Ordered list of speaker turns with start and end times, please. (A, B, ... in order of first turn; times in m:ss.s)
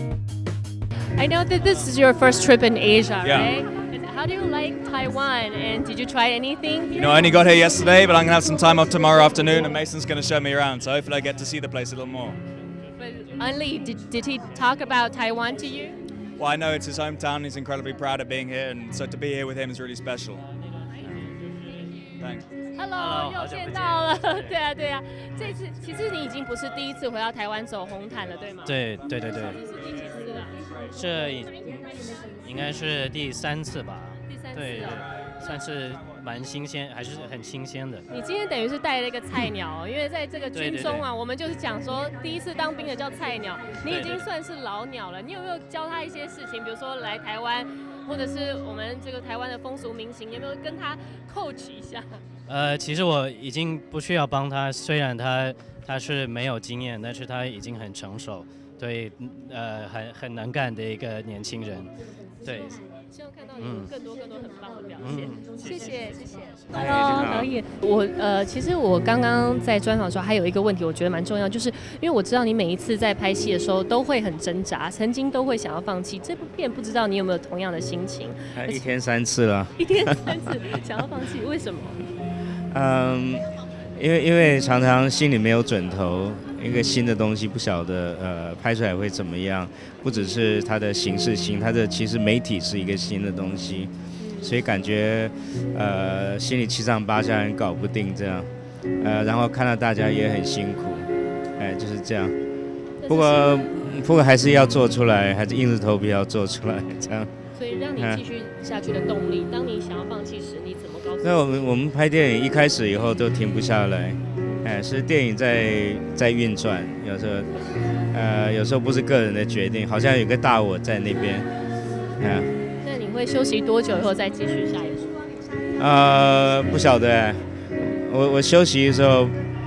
0:01.2-0:07.3 A
0:03.2-0:03.5 B
0:06.9-0:12.4 B
0:13.0-0:16.0 A
0:16.4-0:20.5 B
0:21.0-0:21.4 C
0:22.2-0:22.5 B
0:22.7-0:28.8 A
0:22.9-0:24.6 C
0:28.6-0:29.6 C
0:29.3-0:30.6 A
0:30.9-0:38.1 C
0:34.3-0:35.1 A
0:38.1-0:52.2 A
0:40.5-0:41.1 C
0:43.9-0:44.2 C
0:52.5-1:02.8 C
1:02.5-1:18.8 A
1:03.6-1:03.9 C
1:05.0-1:05.6 C
1:06.7-1:07.5 D
1:18.5-1:20.3 D
1:19.8-1:22.0 A
1:22.7-1:38.5 D
1:26.7-1:27.0 A
1:34.2-1:34.6 A
1:39.0-1:42.3 D
1:43.0-1:43.7 A
1:43.1-1:47.3 D
1:47.5-1:51.5 A
1:48.0-1:48.2 D
1:51.2-1:57.5 D
1:58.1-2:01.5 D
2:02.2-2:02.5 D
2:02.8-2:05.1 A
2:05.8-2:09.4 D